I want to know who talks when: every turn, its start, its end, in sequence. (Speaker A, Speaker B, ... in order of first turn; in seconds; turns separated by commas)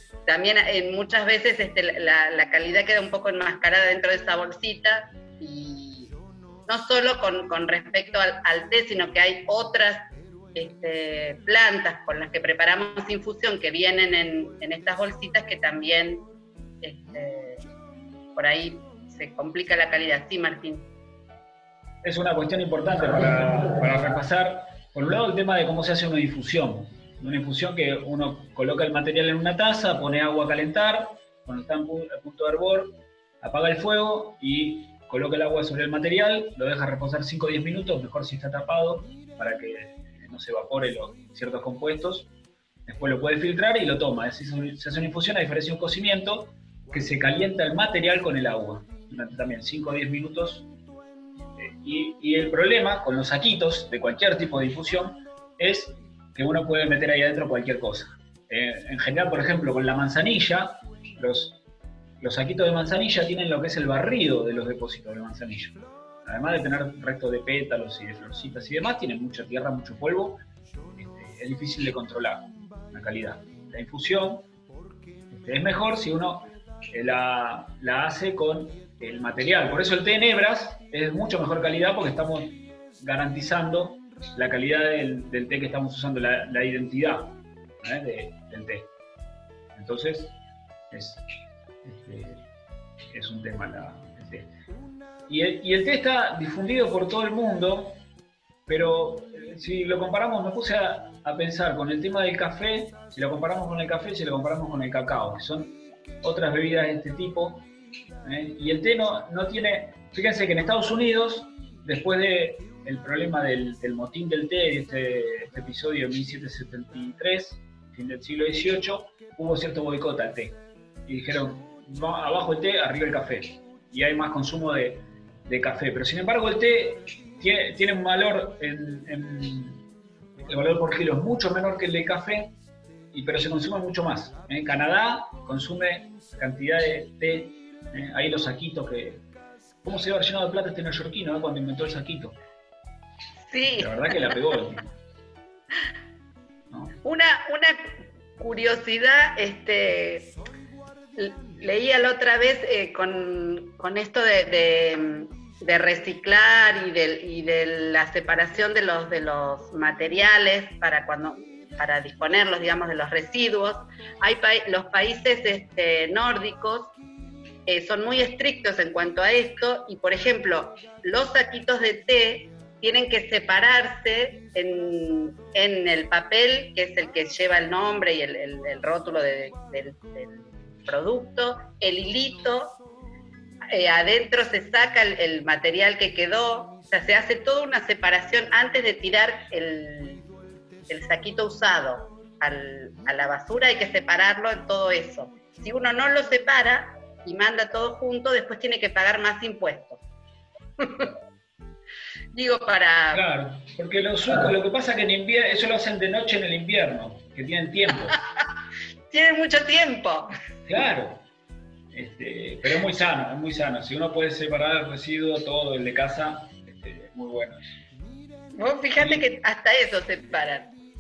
Speaker A: 0.3-6.1, Speaker A: 6.7-16.3, Speaker A: 16.8-17.6, Speaker A: 18.4-20.9, Speaker B: 22.0-42.3, Speaker B: 42.9-50.7, Speaker B: 51.5-61.6, Speaker B: 62.2-70.4, Speaker B: 71.0-74.5, Speaker B: 75.3-88.9, Speaker B: 89.8-90.3, Speaker B: 90.9-91.2, Speaker B: 91.8-92.5, Speaker B: 93.1-94.5, Speaker B: 95.3-98.0, Speaker B: 98.7-107.7, Speaker B: 108.2-129.8, Speaker B: 130.4-132.6, Speaker B: 133.1-139.2, Speaker B: 139.8-142.4, Speaker A: 143.4-144.6, Speaker B: 143.7-144.9, Speaker B: 146.7-146.9, Speaker A: 147.0-150.3, Speaker A: 151.2-166.9, Speaker A: 167.7-182.8, Speaker A: 183.7-190.3, Speaker A: 190.9-200.0, Speaker A: 200.8-201.1, Speaker A: 202.3-203.2, Speaker B: 203.1-208.2, Speaker A: 209.1-210.3, Speaker B: 210.7-211.2, Speaker B: 211.9-217.8, Speaker A: 218.6-220.7, Speaker B: 219.0-219.2